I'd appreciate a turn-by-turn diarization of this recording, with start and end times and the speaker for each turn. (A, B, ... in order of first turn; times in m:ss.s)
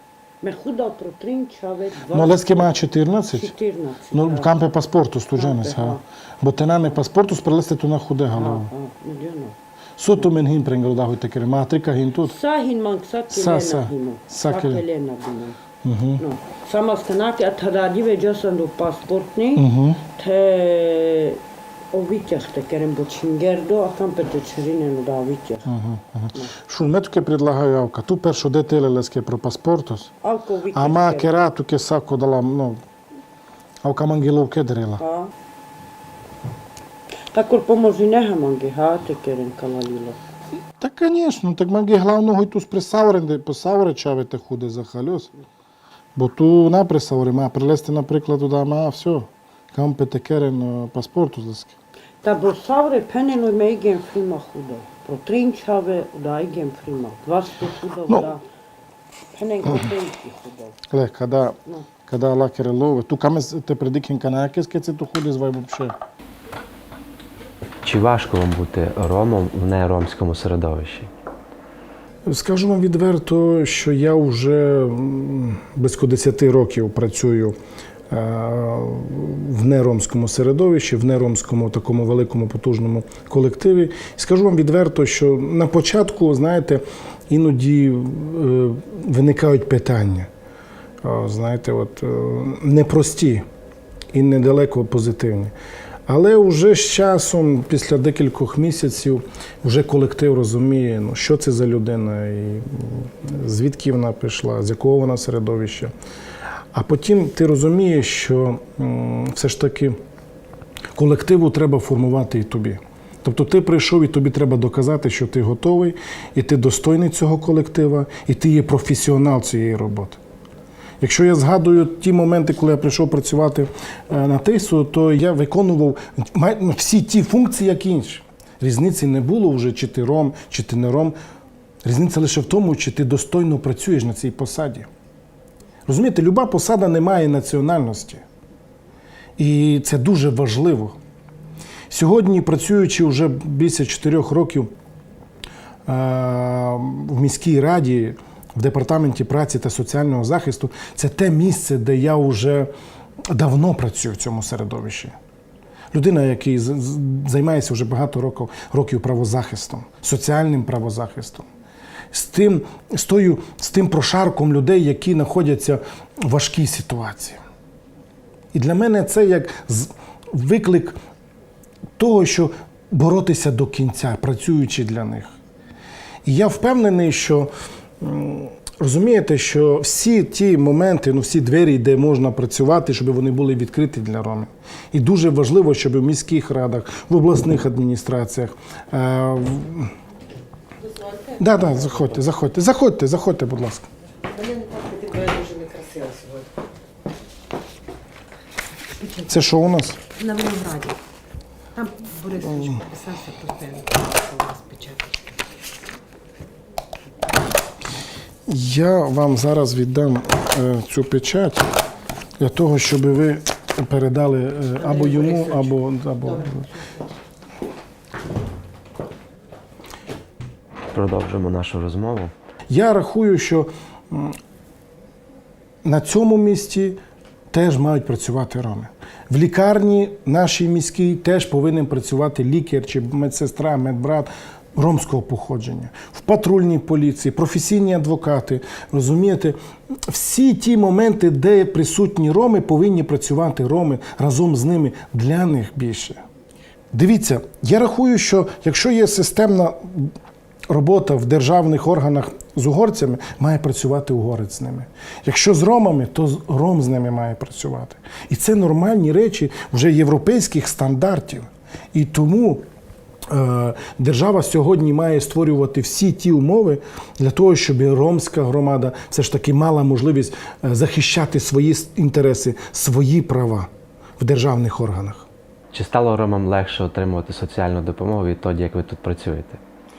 0:00.4-0:02.8 A
0:02.1-0:03.5 B
0:03.3-0:04.5 A
0:04.1-0:08.7 B
0:05.4-0:06.0 A
0:08.4-0:09.6 A
0:10.0-0:12.4 B
0:12.3-0:15.6 A
0:13.3-0:14.8 B
0:15.8-0:16.2 B
0:16.2-0:21.4 A
0:19.6-0:20.0 B
0:21.9-0:25.7 A
0:25.7-0:30.1 B
0:30.2-0:31.4 A
0:30.7-0:32.8 B
0:33.8-0:35.0 B
0:35.0-0:35.3 A
0:37.3-0:40.2 A
0:40.8-0:45.3 B
0:46.2-0:51.8 B
0:52.2-0:58.4 A
0:59.3-1:00.8 A
1:00.9-1:06.0 B
1:07.8-1:11.1 C
1:12.2-1:17.6 B
1:18.1-1:30.3 B
1:31.0-1:33.4 B
1:34.1-1:35.5 B
1:36.1-1:45.9 B
1:46.7-1:50.0 B
1:51.0-2:00.2 B
2:01.0-2:11.2 B
2:11.8-2:14.9 B
2:15.9-2:18.2 B
2:19.4-2:21.0 B
2:21.9-2:24.7 B
2:25.9-2:32.7 B
2:33.3-2:35.2 B
2:35.9-2:41.5 B
2:42.1-2:47.4 B
2:48.5-2:51.0 B
2:52.0-2:55.3 B
2:56.2-3:09.9 B
3:11.4-3:13.9 B
3:14.3-3:16.4 D
3:19.2-3:20.0 B
3:20.2-3:20.9 D
3:21.8-3:25.1 D
3:28.5-3:31.7 B
3:32.4-3:36.7 B
3:40.9-3:42.3 C
3:42.7-3:44.4 B
3:45.8-3:47.0 B
3:47.5-3:59.6 B
4:00.1-4:06.2 B
4:06.9-4:10.1 B
4:10.7-4:22.6 B
4:23.3-4:35.3 B
4:35.7-4:39.6 C